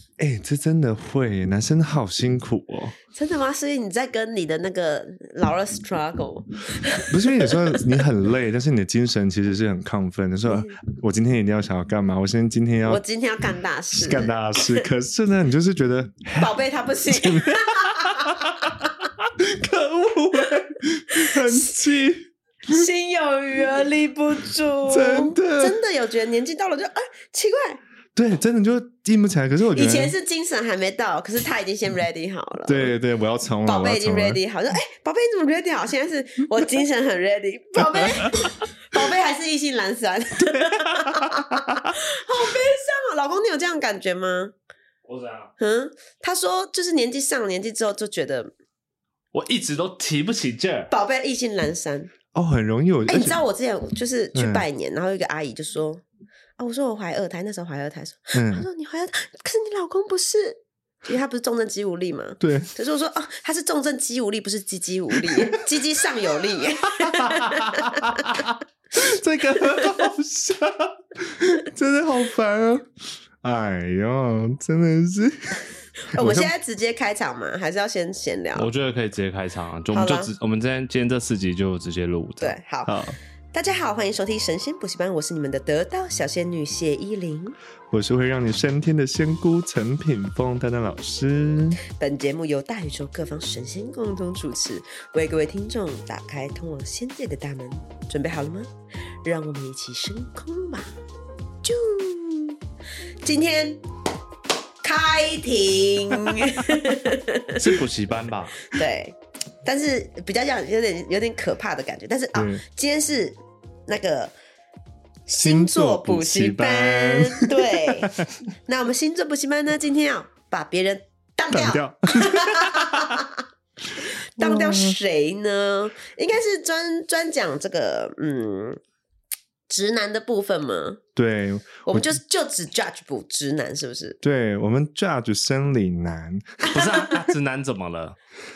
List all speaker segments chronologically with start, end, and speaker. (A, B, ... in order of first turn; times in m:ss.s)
0:00.2-0:03.0 A
0:03.1-0:08.0 B
0:07.0-0:13.0 A
0:10.5-0:10.8 B
0:12.8-0:14.9 B
0:13.9-0:22.8 A
0:16.4-0:18.9 B
0:21.1-0:21.7 B
0:22.7-0:27.8 B
0:24.9-0:25.8 A
0:28.1-0:30.1 A
0:29.7-0:32.9 B
0:32.6-0:34.4 A
0:33.6-0:44.5 B
0:37.9-0:38.3 A
0:45.0-0:45.5 C
0:45.6-0:48.5 B
0:49.3-0:50.9 C
0:50.9-0:52.1 B
0:52.3-0:53.4 A
0:53.1-0:56.0 B
0:54.3-0:54.6 A
0:56.6-1:08.4 B
0:58.3-0:58.7 A
1:02.4-1:02.7 A
1:07.0-1:12.9 A
1:13.4-1:15.6 A
1:16.1-1:18.7 B
1:16.1-1:16.5 A
1:18.5-1:22.6 C
1:19.9-1:20.3 B
1:22.4-1:23.0 B
1:22.9-1:23.2 A
1:23.5-1:27.5 B
1:27.9-1:31.8 A
1:31.9-1:38.7 B
1:39.2-1:40.9 B
1:41.6-1:42.6 B
1:43.2-1:43.8 B
1:44.8-1:47.7 B
1:47.5-1:48.7 C
1:48.7-1:53.4 B
1:52.3-1:52.6 A
1:53.9-1:54.3 B
1:55.3-2:03.4 B
1:55.3-1:58.3 A
2:01.5-2:03.2 A
2:04.0-2:05.0 A
2:04.1-2:08.8 B
2:09.7-2:11.0 B
2:11.2-2:12.1 A
2:11.8-2:14.2 B
2:14.2-2:16.8 A
2:16.7-2:18.2 C
2:16.7-2:17.1 B